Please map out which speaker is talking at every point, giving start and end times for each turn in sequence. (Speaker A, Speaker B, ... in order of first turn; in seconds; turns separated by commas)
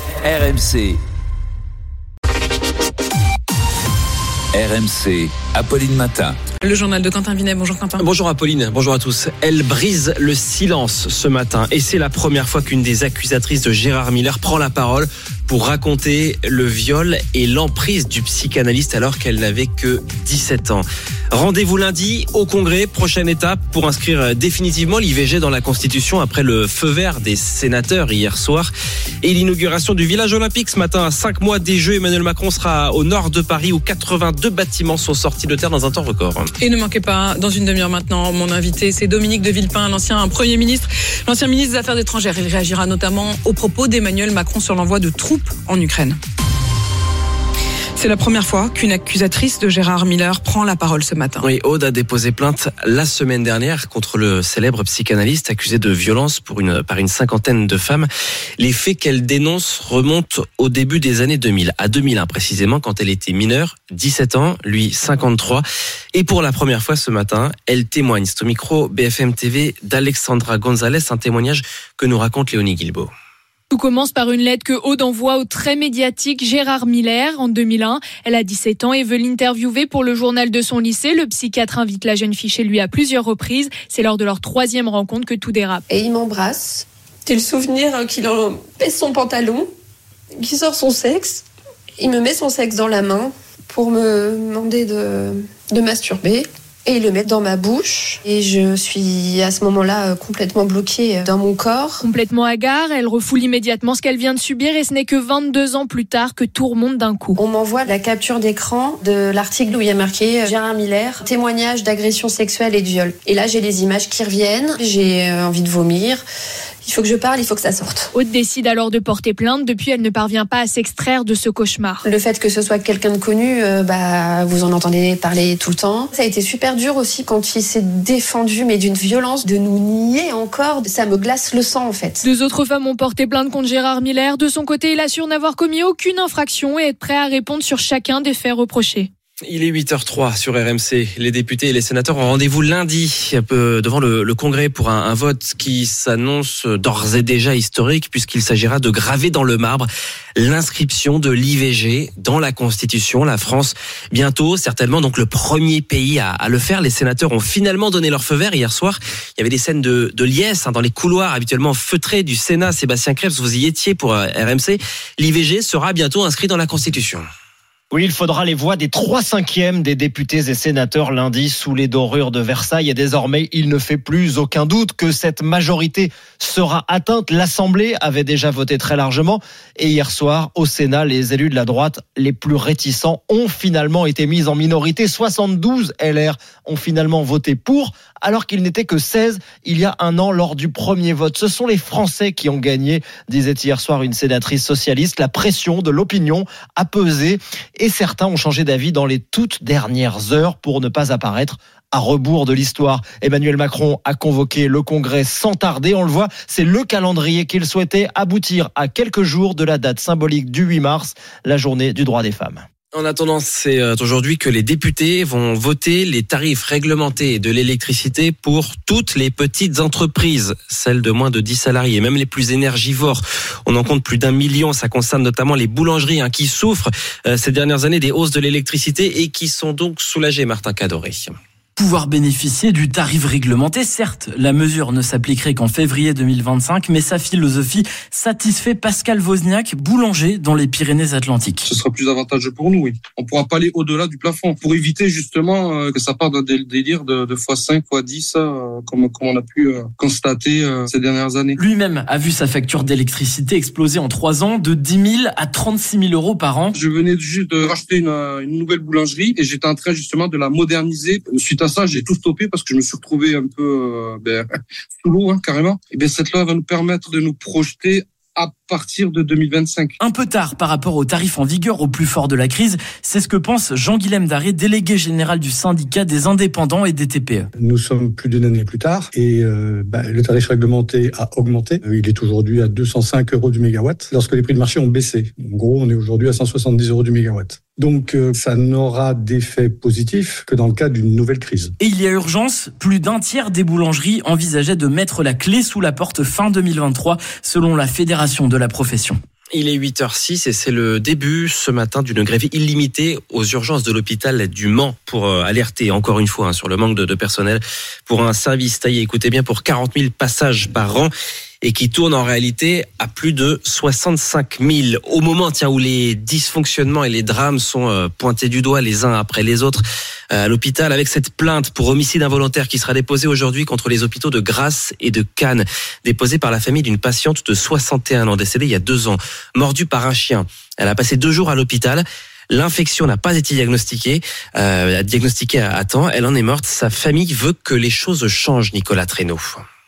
Speaker A: 0.2-1.0, Speaker A: 4.5-6.4, Speaker B: 6.6-8.0, Speaker C: 8.0-28.7, Speaker C: 29.2-36.5, Speaker B: 36.6-46.2, Speaker B: 48.0-51.5, Speaker C: 51.4-73.1, Speaker D: 73.7-85.8, Speaker E: 85.9-89.7, Speaker E: 90.4-91.4, Speaker E: 92.0-102.0, Speaker D: 102.0-107.4, Speaker E: 107.3-116.2, Speaker E: 116.8-118.1, Speaker D: 118.1-122.0, Speaker E: 122.0-132.2, Speaker D: 132.2-139.1, Speaker C: 139.4-167.3, Speaker F: 167.9-212.6, Speaker C: 212.9-231.4, Speaker G: 231.8-241.7, Speaker H: 241.7-251.6, Speaker G: 251.6-256.8, Speaker H: 256.7-264.5, Speaker H: 265.0-269.9, Speaker G: 270.0-277.5, Speaker I: 277.6-291.7, Speaker G: 291.8-299.2, Speaker C: 299.5-339.6